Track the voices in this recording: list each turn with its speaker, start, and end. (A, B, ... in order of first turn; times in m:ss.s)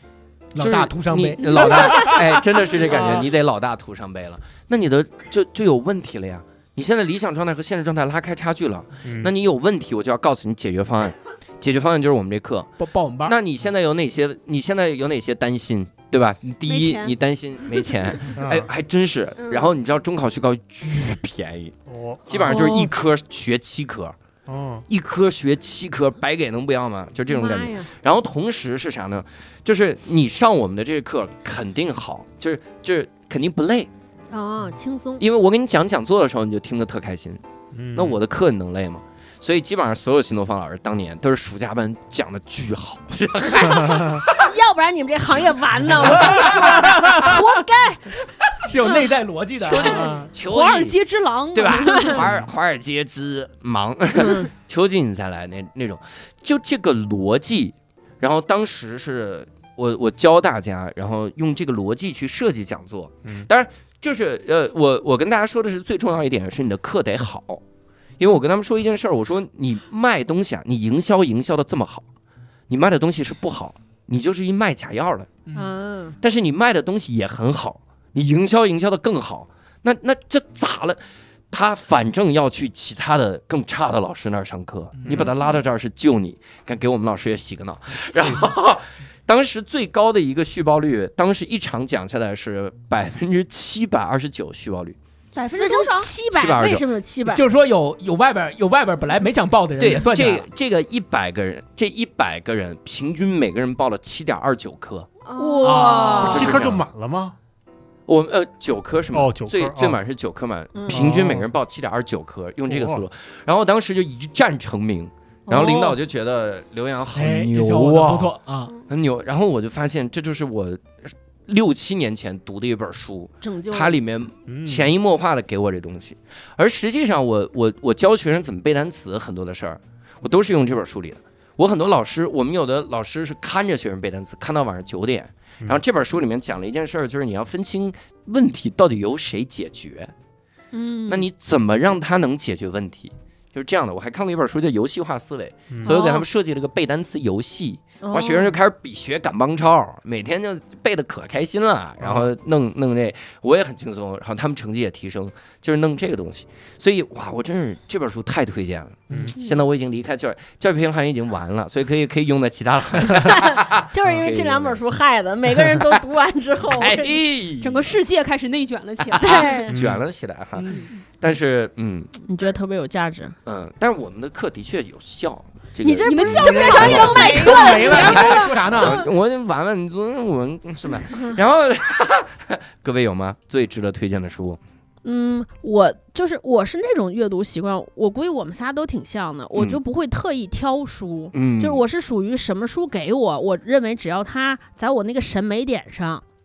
0:00.6-0:03.1 A
0:00.6-0:12.7 B
0:01.6-0:01.9 C
0:02.9-0:03.2 C
0:09.0-0:09.3 D
0:12.8-0:13.4 A
0:13.2-0:21.8 B
0:16.7-0:17.1 E
0:18.3-0:18.7 D
0:19.4-0:19.7 E
0:21.9-0:22.7 D
0:22.3-0:24.2 B
0:22.5-0:22.9 C
0:24.5-0:24.8 D
0:24.9-0:33.9 B
0:27.3-0:27.9 C
0:34.3-0:35.2 C
0:35.2-0:37.4 B
0:37.8-0:38.2 D
0:37.9-0:44.5 B
0:44.3-0:48.1 C
0:46.2-0:46.6 B
0:46.7-0:47.4 A
0:48.5-0:50.2 A
0:49.6-0:51.0 B
0:50.0-0:52.2 E
0:51.5-1:07.6 B
0:51.8-0:52.2 C
0:54.2-0:54.5 C
1:08.2-1:12.0 B
1:12.7-1:15.3 B
1:15.5-1:15.7 A
1:15.6-1:16.2 C
1:16.2-1:21.0 B
1:21.5-1:35.0 B
1:25.0-1:25.3 A
1:35.4-1:36.1 E
1:35.6-1:37.4 C
1:36.3-1:36.9 B
1:37.3-1:40.5 A
1:39.8-1:45.1 B
1:45.2-1:46.3 E
1:45.4-1:46.6 C
1:45.6-1:46.6 A
1:46.2-1:46.8 B
1:46.2-1:47.4 D
1:48.1-1:58.4 B
1:49.1-1:50.0 D
1:50.8-1:51.1 C
1:50.9-1:51.5 D
1:52.7-1:53.0 D
1:55.5-1:56.0 C
1:57.1-1:58.7 A
1:58.9-2:20.1 B
2:03.4-2:04.0 C
2:04.5-2:04.9 D
2:20.7-2:21.3 C
2:21.1-2:44.8 B
2:25.8-2:26.2 C
2:28.0-2:28.6 C
2:32.0-2:32.3 D
2:39.1-2:39.4 A
2:39.1-2:39.4 D
2:43.0-2:47.2 C
2:46.7-2:48.0 B
2:47.6-2:49.7 E
2:49.0-2:50.7 B
2:49.2-2:49.7 C
2:49.7-2:50.0 D
2:50.6-2:50.8 A
2:51.2-2:52.1 B
2:52.3-2:53.4 C
2:53.4-3:04.6 B
2:55.8-2:58.9 C
2:56.0-2:58.5 E
2:56.4-2:59.1 A
3:05.0-3:16.2 C
3:11.3-3:11.8 B